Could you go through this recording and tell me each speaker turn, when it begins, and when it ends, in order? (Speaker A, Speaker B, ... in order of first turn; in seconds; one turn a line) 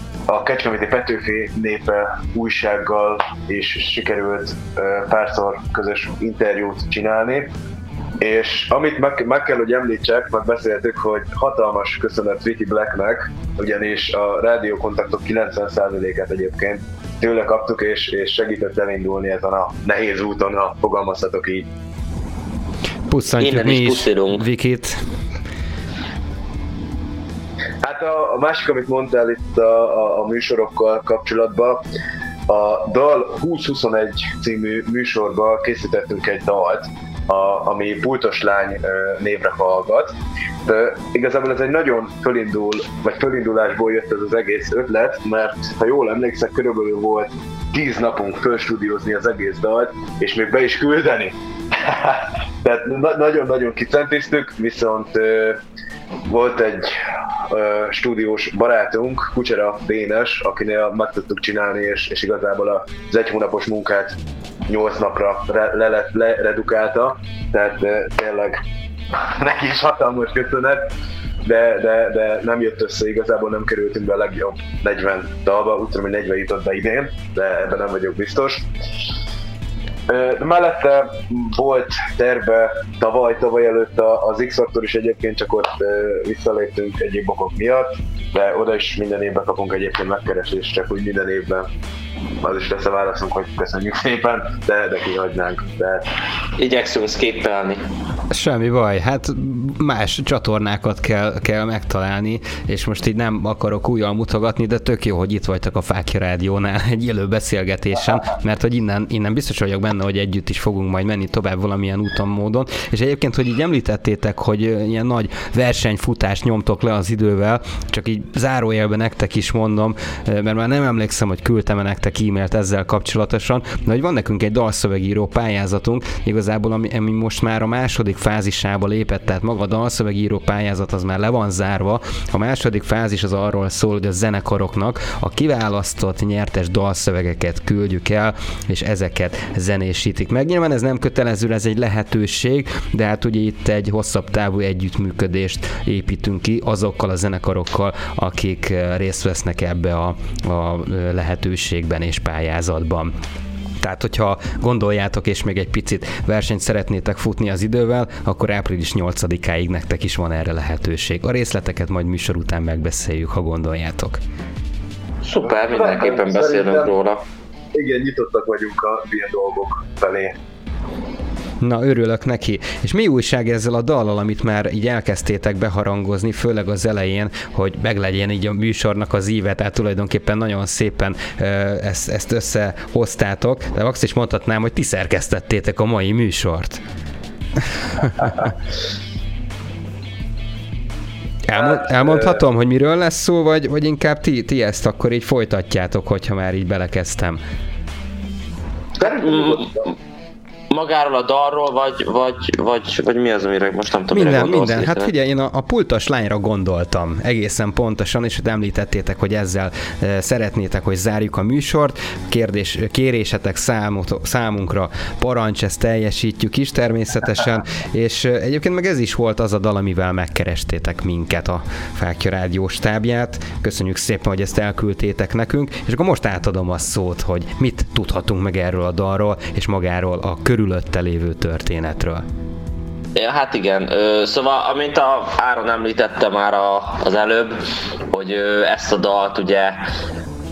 Speaker A: 0.3-7.5
Speaker A: 8.2-21.7
Speaker B: 23.1-25.0
Speaker C: 23.4-24.4
Speaker A: 27.8-31.8
Speaker A: 32.5-40.1
Speaker A: 40.6-55.6
Speaker A: 56.3-64.2
Speaker A: 64.7-68.6
Speaker A: 69.2-70.8
Speaker A: 71.4-78.7
Speaker A: 80.1-91.7
Speaker A: 92.4-96.0
Speaker C: 96.6-97.8
Speaker B: 98.3-153.1
Speaker B: 153.8-164.2
Speaker C: 165.2-167.2
Speaker A: 165.5-166.9
Speaker A: 167.7-170.3
Speaker B: 171.6-186.8
Speaker B: 187.7-188.5
Speaker B: 191.4-197.4
Speaker A: 191.8-192.3
Speaker C: 199.0-199.9
Speaker A: 199.0-199.8
Speaker C: 200.7-205.1
Speaker B: 204.1-232.2
Speaker C: 233.1-237.6
Speaker C: 238.1-239.8